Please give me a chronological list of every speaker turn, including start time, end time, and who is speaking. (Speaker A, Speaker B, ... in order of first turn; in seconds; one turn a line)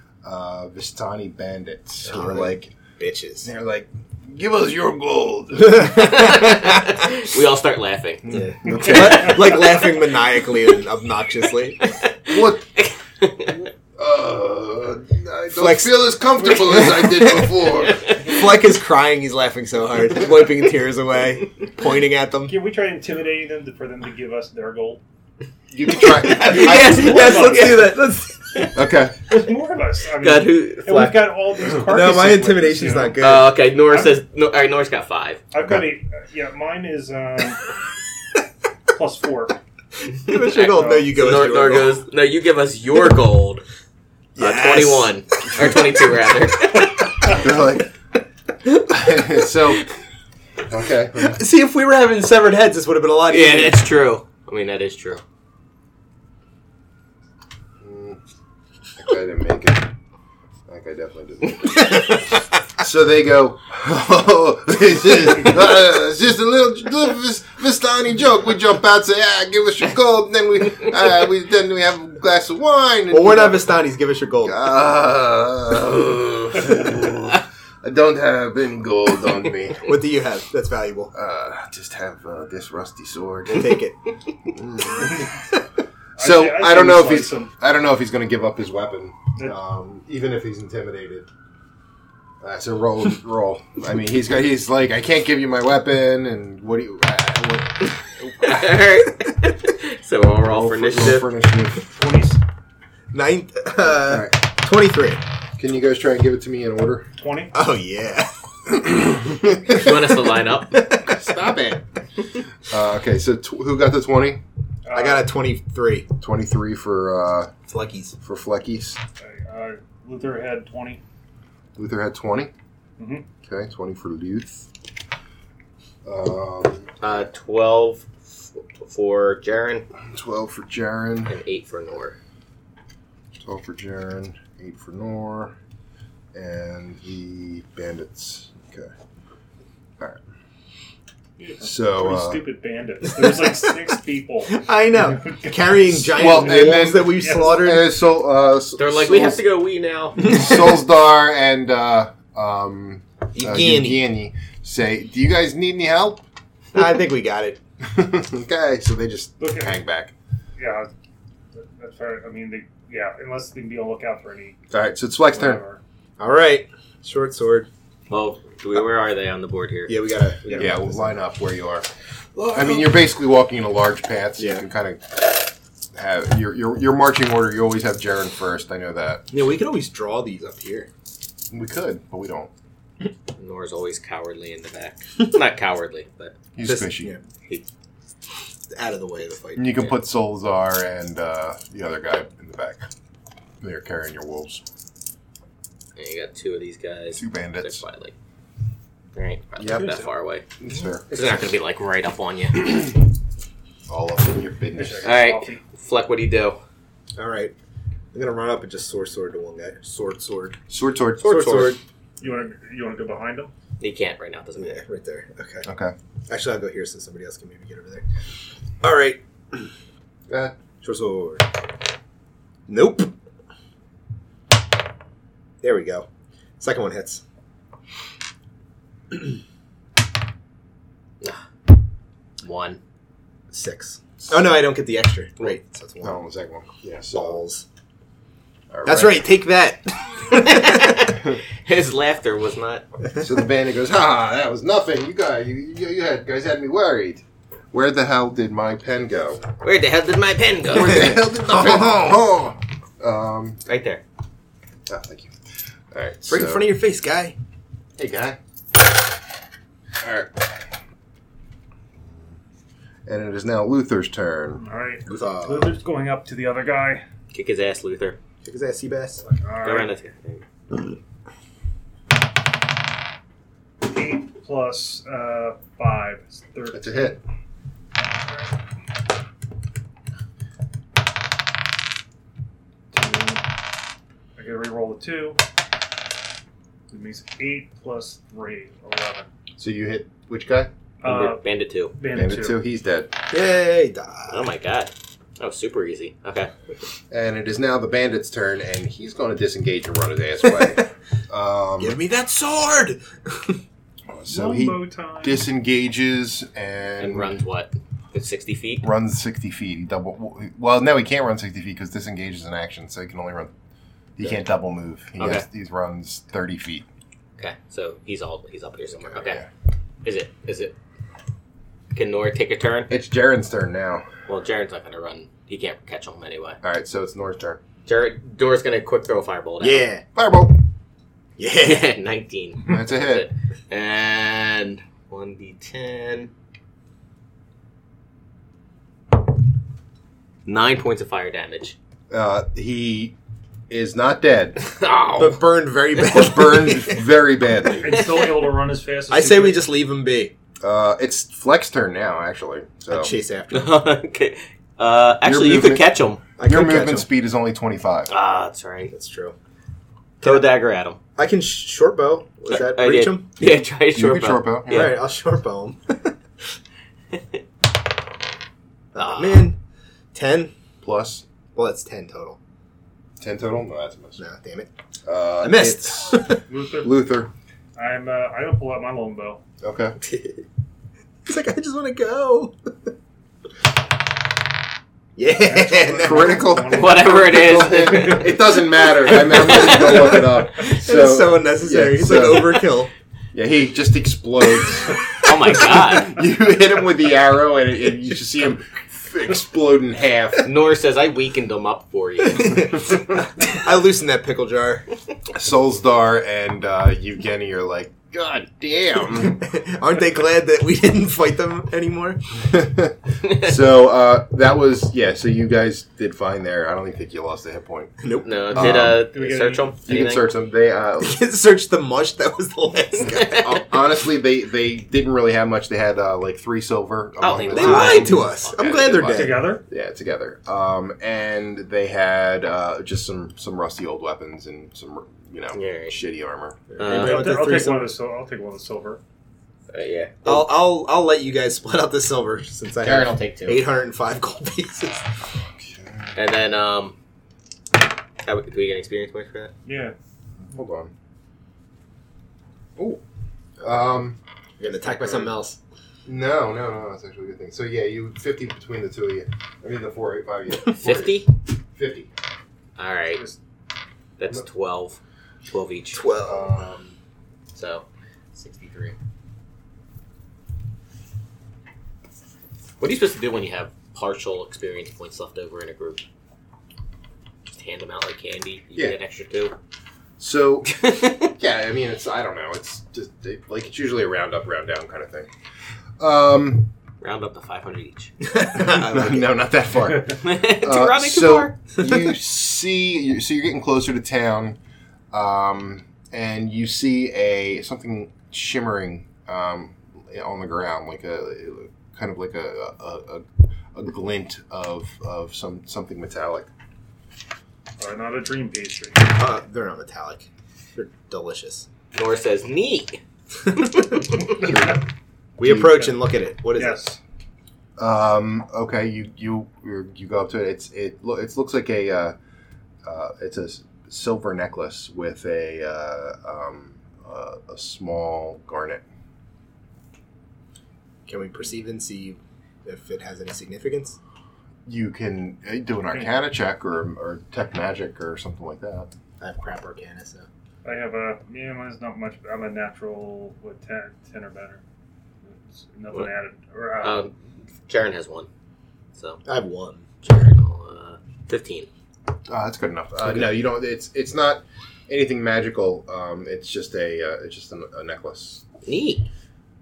Speaker A: 0.2-2.7
Speaker B: 2.0-3.5
Speaker A: 3.4-6.4
Speaker B: 5.7-6.9
Speaker C: 5.9-8.3
Speaker A: 8.2-9.6
Speaker B: 8.3-11.9
Speaker C: 12.0-13.7
Speaker A: 12.3-12.6
Speaker A: 14.0-18.1
Speaker B: 15.6-17.6
Speaker C: 17.9-18.5
Speaker B: 18.1-22.6
Speaker D: 22.5-25.0
Speaker A: 25.7-26.8
Speaker C: 26.2-27.9
Speaker B: 26.3-28.7
Speaker D: 26.3-27.9
Speaker A: 28.7-29.1
Speaker D: 29.3-33.2
Speaker C: 30.2-31.3
Speaker B: 31.8-33.5
Speaker C: 33.2-35.4
Speaker D: 35.5-37.7
Speaker D: 38.9-39.6
Speaker B: 40.1-42.0
Speaker C: 40.3-43.6
Speaker D: 40.5-41.1
Speaker B: 44.4-45.1
Speaker C: 44.4-47.4
Speaker A: 47.3-47.9
Speaker A: 48.9-49.8
Speaker A: 50.7-51.4
Speaker B: 51.2-53.9
Speaker C: 53.3-55.2
Speaker A: 57.8-58.2
Speaker A: 59.0-59.9
Speaker A: 60.7-73.7
Speaker B: 61.7-62.2
Speaker B: 73.1-74.6
Speaker A: 74.4-79.9
Speaker B: 79.8-81.1
Speaker A: 81.1-83.8
Speaker B: 83.5-84.1
Speaker A: 84.5-85.3
Speaker D: 85.0-85.3
Speaker D: 86.2-87.5
Speaker A: 86.2-91.3
Speaker A: 92.4-98.7
Speaker C: 98.4-101.3
Speaker A: 100.4-101.9
Speaker D: 101.9-102.4
Speaker B: 103.1-105.2
Speaker A: 103.9-104.4
Speaker A: 105.6-107.1
Speaker D: 107.2-107.5
Speaker B: 107.5-108.8
Speaker A: 108.7-109.7
Speaker C: 109.7-110.9
Speaker B: 110.8-111.2
Speaker A: 111.0-111.8
Speaker A: 112.6-114.4
Speaker D: 114.8-115.3
Speaker B: 114.9-116.1
Speaker A: 116.2-117.5
Speaker B: 117.7-118.2
Speaker A: 118.2-119.0
Speaker D: 119.2-121.0
Speaker A: 121.8-122.5
Speaker D: 123.0-123.2
Speaker A: 123.4-124.7
Speaker A: 126.0-126.9
Speaker C: 127.0-129.8
Speaker A: 130.1-131.3
Speaker C: 131.3-132.2
Speaker A: 133.4-135.5
Speaker A: 136.3-138.9
Speaker D: 141.4-147.6
Speaker A: 141.6-142.4
Speaker B: 143.2-143.7
Speaker B: 144.5-147.9
Speaker A: 145.9-149.4
Speaker C: 148.8-150.5
Speaker A: 150.2-156.2
Speaker B: 153.3-154.0
Speaker B: 156.7-157.6
Speaker A: 157.8-160.1
Speaker D: 159.4-159.8
Speaker D: 160.6-160.9
Speaker D: 161.5-164.6
Speaker A: 164.7-165.6
Speaker D: 165.3-165.8
Speaker B: 166.2-167.7
Speaker C: 168.1-169.9
Speaker B: 169.9-171.2
Speaker A: 170.5-171.9
Speaker B: 172.3-173.0
Speaker A: 172.5-179.2
Speaker B: 174.4-174.7
Speaker B: 179.3-180.9
Speaker A: 181.5-182.5
Speaker C: 183.3-186.3
Speaker A: 186.5-187.2
Speaker B: 186.6-187.2
Speaker B: 188.7-189.9
Speaker A: 189.6-192.8
Speaker A: 193.6-194.6
Speaker C: 196.0-198.1
Speaker A: 197.1-197.8
Speaker C: 199.1-200.4
Speaker A: 199.6-200.0
Speaker D: 199.7-200.0
Speaker A: 200.6-201.1
Speaker C: 201.1-202.7
Speaker A: 203.9-205.2
Speaker D: 204.7-205.6
Speaker C: 205.0-206.6
Speaker B: 207.2-207.5
Speaker B: 208.1-210.6
Speaker A: 210.7-211.8
Speaker B: 211.2-211.8
Speaker D: 212.2-213.5
Speaker C: 213.8-214.8
Speaker B: 214.6-215.7
Speaker A: 215.6-215.9
Speaker B: 216.3-218.1
Speaker B: 218.8-219.7
Speaker A: 220.3-220.6
Speaker B: 220.8-221.4
Speaker B: 222.7-223.1
Speaker B: 225.6-226.1
Speaker B: 226.6-227.2
Speaker C: 232.4-232.8
Speaker B: 233.5-236.2
Speaker A: 236.0-237.4
Speaker B: 237.1-237.6
Speaker A: 238.7-239.3
Speaker B: 238.8-241.0
Speaker C: 240.3-242.8
Speaker A: 243.2-249.4
Speaker C: 249.6-251.2
Speaker A: 250.7-253.6
Speaker B: 250.8-252.1
Speaker C: 253.7-254.0
Speaker A: 254.9-255.3
Speaker A: 255.9-256.6
Speaker B: 256.3-257.4
Speaker A: 258.0-258.4
Speaker A: 260.0-260.5
Speaker A: 262.0-262.3
Speaker A: 263.1-264.6
Speaker D: 264.6-267.0
Speaker B: 265.1-265.8
Speaker C: 267.3-268.2
Speaker B: 268.4-269.3
Speaker D: 269.2-269.9
Speaker C: 269.6-270.4
Speaker D: 273.8-277.2
Speaker A: 276.7-277.2
Speaker D: 282.9-283.4
Speaker D: 284.4-285.4
Speaker D: 286.9-289.3
Speaker A: 289.6-290.7
Speaker D: 291.0-291.4
Speaker C: 291.0-291.9
Speaker D: 291.9-292.6
Speaker A: 292.1-293.1
Speaker B: 293.3-294.4
Speaker C: 294.3-296.5
Speaker A: 297.1-302.0
Speaker B: 301.8-303.6
Speaker A: 304.1-307.4
Speaker D: 304.3-305.4
Speaker C: 307.0-308.9
Speaker A: 308.8-313.5
Speaker A: 314.2-316.8
Speaker C: 315.2-315.4
Speaker C: 317.4-319.4
Speaker A: 319.1-319.5
Speaker C: 320.0-320.7
Speaker C: 321.9-322.9
Speaker A: 322.9-324.1
Speaker C: 324.3-326.6
Speaker A: 326.6-327.6
Speaker C: 327.9-329.9
Speaker B: 329.6-330.0
Speaker A: 330.1-330.6
Speaker B: 331.4-331.9
Speaker C: 331.6-336.3
Speaker A: 332.6-333.3
Speaker C: 340.4-341.8
Speaker A: 342.1-343.1
Speaker A: 343.7-344.6
Speaker C: 344.6-345.4
Speaker B: 345.2-347.0
Speaker A: 345.9-348.0
Speaker D: 347.8-349.6
Speaker B: 349.1-350.3
Speaker A: 350.6-353.1
Speaker B: 352.9-353.8
Speaker C: 353.5-356.2
Speaker A: 355.2-358.1
Speaker B: 356.4-357.1
Speaker C: 358.1-358.9
Speaker B: 358.9-359.4
Speaker B: 360.2-360.5
Speaker C: 360.2-361.0
Speaker B: 361.1-363.3
Speaker C: 362.5-365.0
Speaker A: 363.9-364.9
Speaker B: 364.7-366.1
Speaker C: 368.9-369.5
Speaker B: 369.0-369.6
Speaker B: 370.1-370.5
Speaker A: 370.8-371.2
Speaker B: 371.5-372.4
Speaker A: 373.2-374.2
Speaker B: 374.2-374.7
Speaker A: 375.0-377.3
Speaker B: 375.4-376.4
Speaker D: 376.5-377.0
Speaker D: 377.8-379.4
Speaker A: 379.6-379.9
Speaker B: 381.2-382.5
Speaker B: 385.1-386.4
Speaker D: 385.3-388.1
Speaker A: 386.0-392.7
Speaker C: 386.7-388.4
Speaker C: 389.1-390.3
Speaker B: 389.1-392.9
Speaker A: 393.3-400.5
Speaker C: 395.2-396.2
Speaker C: 400.4-402.8
Speaker B: 402.2-404.9
Speaker A: 405.3-409.4
Speaker B: 409.4-412.4
Speaker A: 412.5-417.9
Speaker B: 418.0-418.9
Speaker C: 418.2-420.3
Speaker A: 418.5-419.1
Speaker D: 418.9-419.7
Speaker A: 419.8-421.2
Speaker B: 421.0-423.6
Speaker C: 423.0-423.6
Speaker A: 423.3-436.6
Speaker C: 427.2-429.0
Speaker B: 427.5-429.6
Speaker D: 429.1-429.6
Speaker C: 435.5-436.0
Speaker B: 436.7-437.9
Speaker C: 436.8-437.4
Speaker D: 436.9-439.0
Speaker C: 439.7-440.5
Speaker B: 440.2-445.2
Speaker C: 442.8-443.6
Speaker A: 445.4-446.1
Speaker C: 446.1-446.9
Speaker C: 448.2-449.5
Speaker D: 449.6-449.9
Speaker A: 450.4-450.9
Speaker A: 452.8-453.0
Speaker A: 453.6-454.2
Speaker B: 454.6-455.6
Speaker A: 455.0-455.3
Speaker A: 456.1-462.1
Speaker C: 460.7-461.3
Speaker C: 462.8-463.2
Speaker C: 464.2-466.1
Speaker B: 465.9-466.6
Speaker A: 466.2-466.9
Speaker C: 467.5-468.9
Speaker C: 472.8-476.0
Speaker C: 477.5-479.5
Speaker A: 480.2-485.3
Speaker C: 480.8-481.3
Speaker A: 486.0-486.7
Speaker C: 487.0-488.1
Speaker B: 488.2-489.3
Speaker A: 488.5-494.6
Speaker C: 490.1-491.5
Speaker A: 495.1-506.5
Speaker D: 507.8-509.1
Speaker B: 509.1-511.7
Speaker C: 511.9-514.5
Speaker B: 513.6-514.2
Speaker D: 514.3-514.8
Speaker A: 514.4-514.8
Speaker B: 515.4-516.8
Speaker A: 515.4-515.8
Speaker D: 515.5-515.9
Speaker D: 516.5-517.0
Speaker A: 517.8-522.1
Speaker A: 522.8-528.8
Speaker B: 531.0-534.0
Speaker A: 534.6-538.9
Speaker B: 539.2-540.3
Speaker D: 540.6-544.6
Speaker D: 545.2-547.0
Speaker C: 546.8-547.1
Speaker C: 547.7-548.3
Speaker C: 549.0-549.2
Speaker B: 549.2-549.9
Speaker C: 550.0-551.7
Speaker A: 552.3-558.5
Speaker B: 553.0-553.3
Speaker C: 558.6-559.1